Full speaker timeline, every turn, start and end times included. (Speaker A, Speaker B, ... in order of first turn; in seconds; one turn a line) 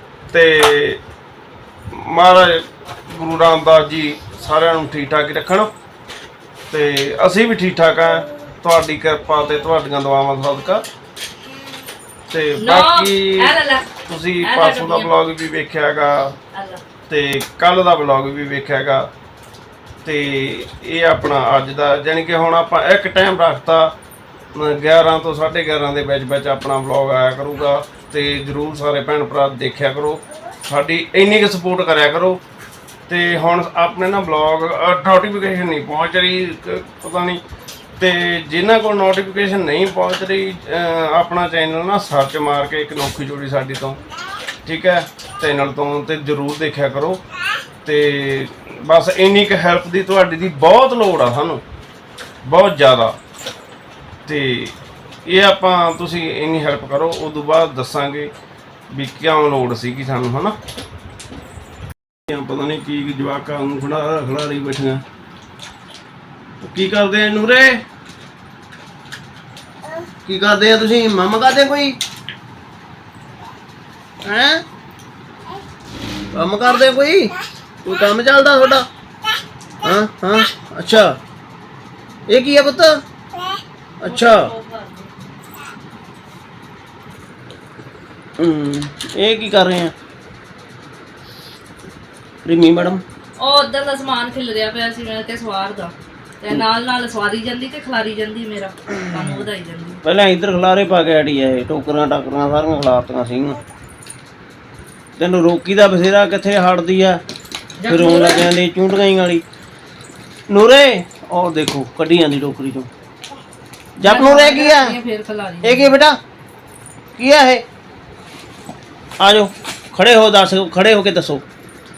Speaker A: 0.3-1.0
Speaker A: 1.9-5.7
Speaker A: 6.7-10.8
Speaker A: 12.3-16.4
Speaker B: 12.6-13.9
Speaker B: 14.4-15.1
Speaker B: 16.5-16.8
Speaker A: 17.1-19.1
Speaker A: 20.1-23.9
Speaker A: 24.6-32.4
Speaker A: 33.1-37.4
Speaker A: 38.0-44.0
Speaker A: 44.6-47.2
Speaker A: 47.8-51.6
Speaker A: 52.4-53.1
Speaker A: 54.3-54.8
Speaker A: 55.3-58.3
Speaker A: 58.9-60.5
Speaker A: 62.3-65.0
Speaker A: 66.6-67.8
Speaker C: 70.3-72.0
Speaker C: 74.2-74.6
Speaker C: 76.3-78.9
Speaker C: 79.8-81.2
Speaker C: 82.3-83.0
Speaker C: 84.0-84.5
Speaker B: 84.0-85.1
Speaker C: 88.4-89.9
Speaker C: 92.5-93.0
Speaker B: 93.4-100.0
Speaker C: 100.0-103.6
Speaker C: 105.2-107.2
Speaker B: 107.8-108.5
Speaker C: 107.9-109.4
Speaker C: 110.5-112.9
Speaker C: 114.0-115.0
Speaker B: 114.0-115.9
Speaker C: 115.6-116.2
Speaker C: 117.2-117.6
Speaker C: 119.2-121.4